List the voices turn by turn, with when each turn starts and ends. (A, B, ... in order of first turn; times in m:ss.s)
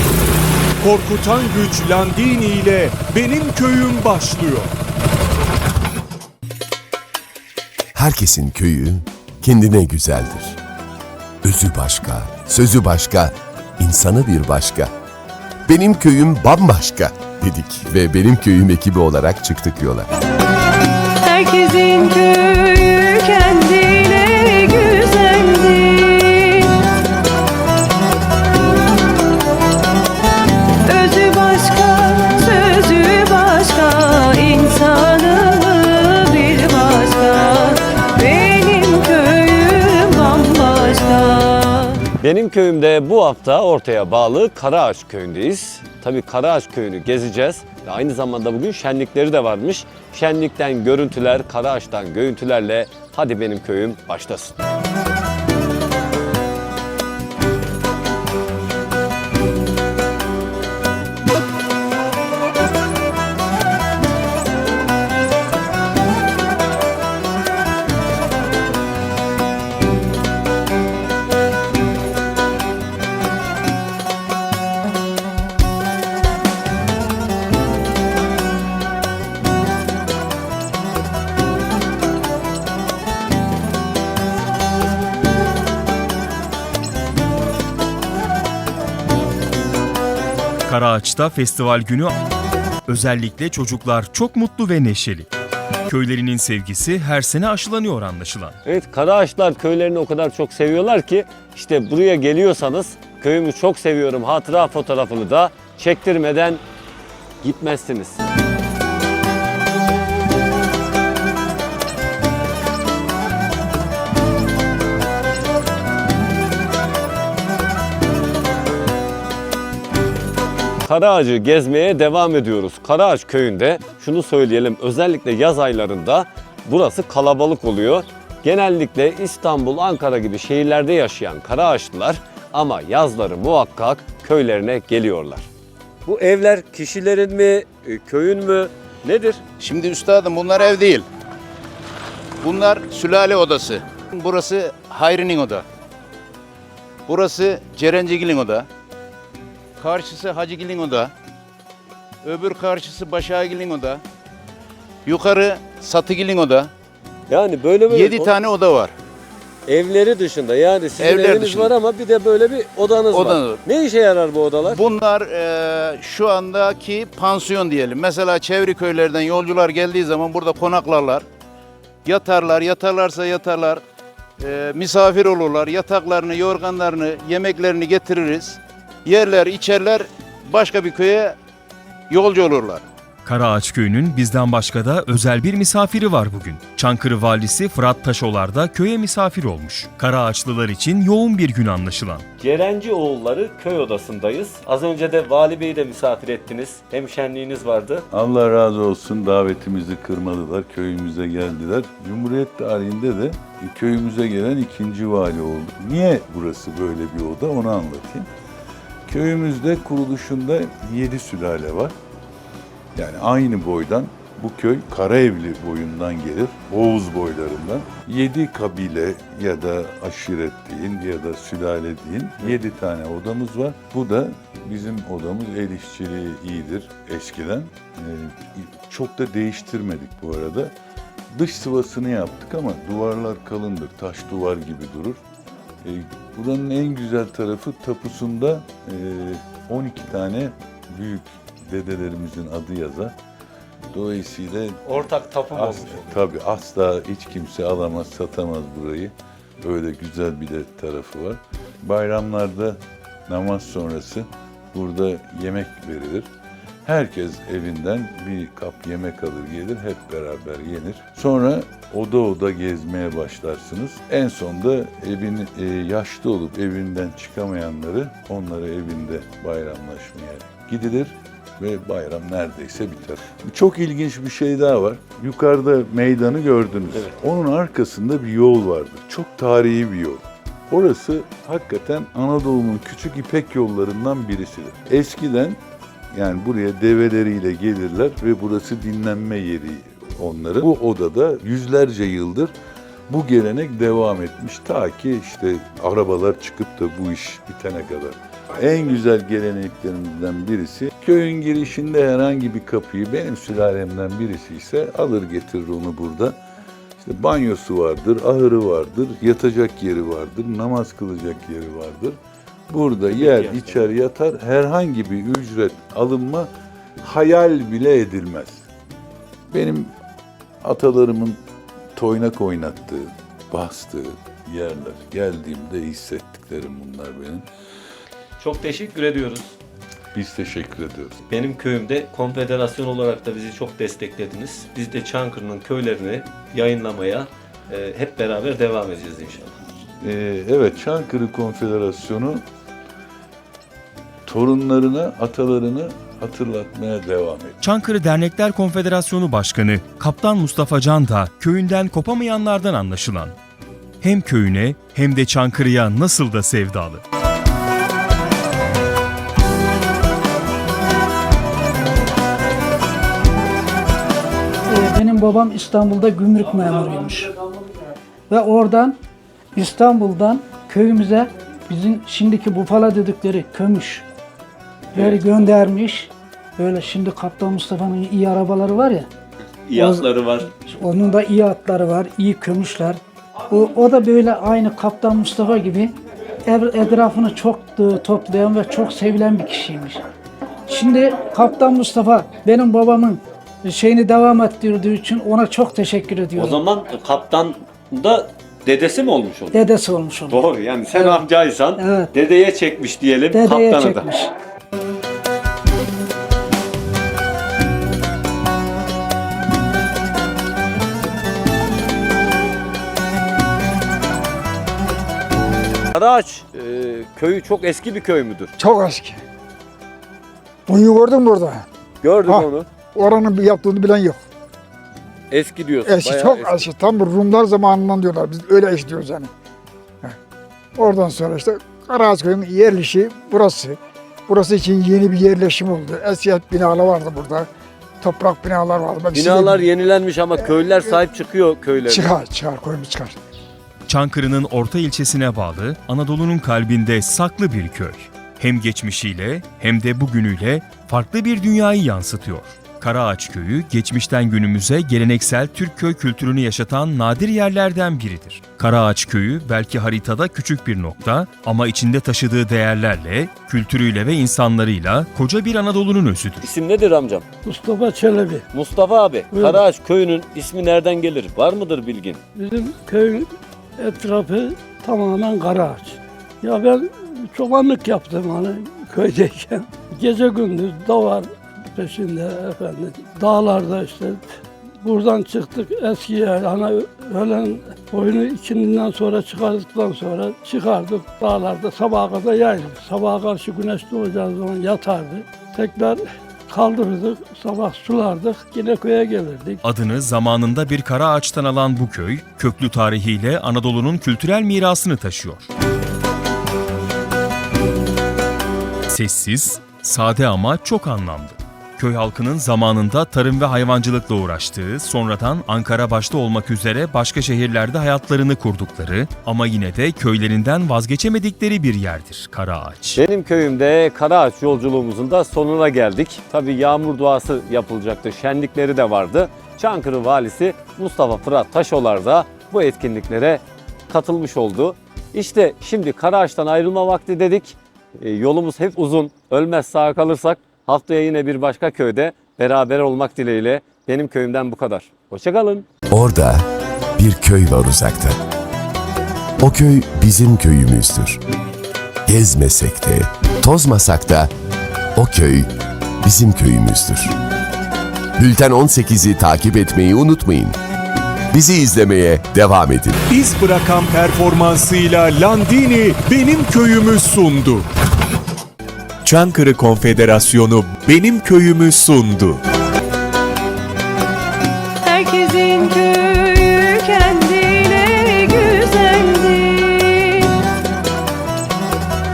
0:00.8-0:04.7 A
0:07.9-0:10.6 B
0:11.4-0:14.9 B
0:15.7-0:20.1 B
0:21.2-0:26.8 C
0:30.8-0:42.0 C
0:42.2-0:54.6 D
1:30.7-1:32.1 E
1:32.8-1:35.3 E
1:35.9-1:38.6 E
1:38.6-1:46.6 D
1:47.4-1:48.2 D
2:00.8-2:15.5 D
2:16.0-2:19.4 D
2:19.6-2:21.1 F
2:22.4-2:25.6 F
2:27.0-2:28.7 F
2:29.8-2:31.1 F
2:32.2-2:34.0 F
2:35.0-2:36.7 F
2:37.3-2:38.3 D
2:37.9-2:38.9 F
2:39.6-2:44.8 D
2:41.0-2:41.7 F
2:43.1-2:43.6 F
2:44.7-2:51.2 F
2:52.0-2:53.8 F
2:54.4-3:01.4 F
3:02.1-3:02.8 F
3:03.2-3:12.2 E
3:12.4-3:18.0 D
3:18.1-3:28.3 G
3:29.1-3:31.9 G
3:32.9-3:50.7 G
3:51.3-3:55.2 G
3:55.8-4:03.1 G
4:03.9-4:16.3 G
4:04.8-4:06.2 D
4:16.8-4:45.6 G
4:46.1-4:52.5 G
4:53.1-5:06.4 G
5:07.0-5:18.6 G
5:13.1-5:13.8 D
5:19.5-5:19.9 G
5:20.6-5:21.4 G
5:22.0-5:27.5 G
5:28.4-5:29.5 D
5:30.1-5:31.2 G
5:31.3-5:39.6 D
5:40.0-5:42.4 G
5:44.2-5:47.6 G
5:47.6-5:53.4 E
5:54.0-5:57.0 E
6:04.7-6:07.3 H
6:08.3-6:09.0 H
6:09.5-6:14.0 H
6:14.9-6:19.1 H
6:19.7-6:20.5 D
6:19.7-6:25.9 H
6:26.5-6:30.0 H
6:30.7-6:36.6 H
6:36.4-6:39.6 D
6:39.5-6:41.2 H
6:40.3-6:44.1 D
6:41.8-6:42.1 H
6:43.3-6:44.3 H
6:55.9-6:58.5 D
6:58.6-6:59.2 I
7:00.7-7:01.6 I
7:02.0-7:02.6 D
7:02.2-7:04.2 I
7:05.3-7:06.7 D
7:05.8-7:09.3 I
7:10.8-7:17.5 I
7:18.0-7:19.7 I
7:19.1-7:22.1 D
7:20.4-7:21.0 I
7:21.8-7:23.2 I
7:23.9-7:46.5 E
7:46.4-7:47.2 D
7:47.4-7:48.4 J
7:48.5-7:52.2 D
7:49.3-7:49.6 J
7:52.3-8:04.3 J
8:04.8-8:19.6 J
8:19.6-8:25.5 E
8:28.9-8:43.0 E
8:43.0-9:05.6 D
9:05.9-9:06.4 B
9:07.0-9:08.2 B
9:09.4-9:11.2 B
9:12.0-9:14.3 B
9:14.9-9:15.5 B
9:16.0-9:17.1 B
9:18.2-9:20.6 B
9:21.3-9:23.0 B
9:23.1-9:27.7 A
9:29.0-9:32.4 A
9:34.8-9:40.4 C